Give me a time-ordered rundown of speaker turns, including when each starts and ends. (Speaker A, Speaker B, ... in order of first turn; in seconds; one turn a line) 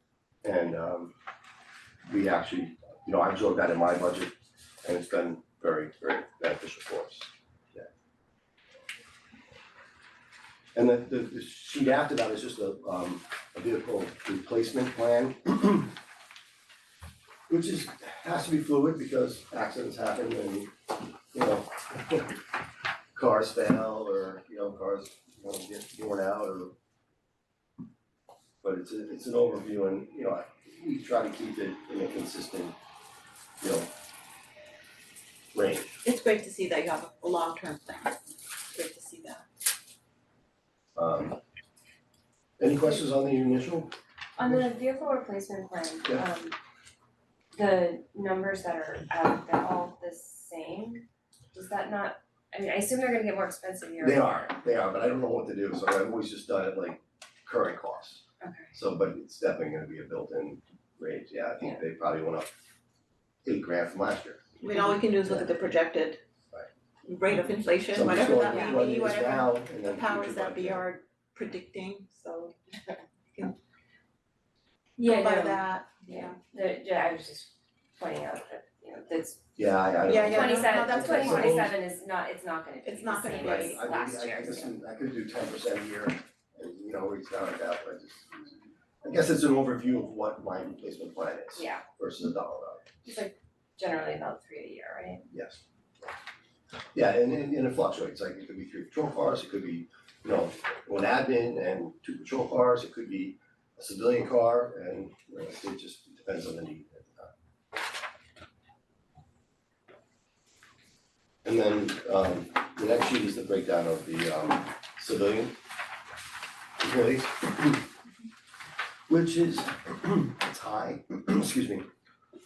Speaker A: 0.4-1.1
Speaker A: 2.1-7.9
Speaker A: 10.7-15.9
Speaker A: 17.5-20.7
Speaker A: 21.3-22.3
Speaker A: 23.1-26.7
Speaker A: 28.6-32.7
Speaker A: 33.6-33.9
Speaker A: 35.5-36.0
Speaker B: 36.0-38.2
Speaker B: 38.7-39.4
Speaker A: 41.0-41.4
Speaker A: 42.6-44.7
Speaker C: 44.4-46.5
Speaker C: 47.5-54.4
Speaker A: 54.0-62.5
Speaker C: 58.4-58.7
Speaker A: 63.4-64.5
Speaker B: 64.6-66.2
Speaker A: 65.1-65.5
Speaker B: 67.0-72.5
Speaker A: 67.9-70.9
Speaker C: 68.4-68.8
Speaker B: 75.0-76.4
Speaker C: 75.0-79.4
Speaker A: 79.6-81.8
Speaker B: 80.0-81.6
Speaker C: 80.0-84.7
Speaker B: 82.8-83.8
Speaker A: 83.3-88.5
Speaker A: 89.0-93.2
Speaker C: 91.5-91.8
Speaker C: 93.0-95.2
Speaker A: 95.3-95.6
Speaker A: 96.9-107.3
Speaker A: 111.4-115.5
Speaker A: 116.8-117.9
Speaker A: 119.1-121.9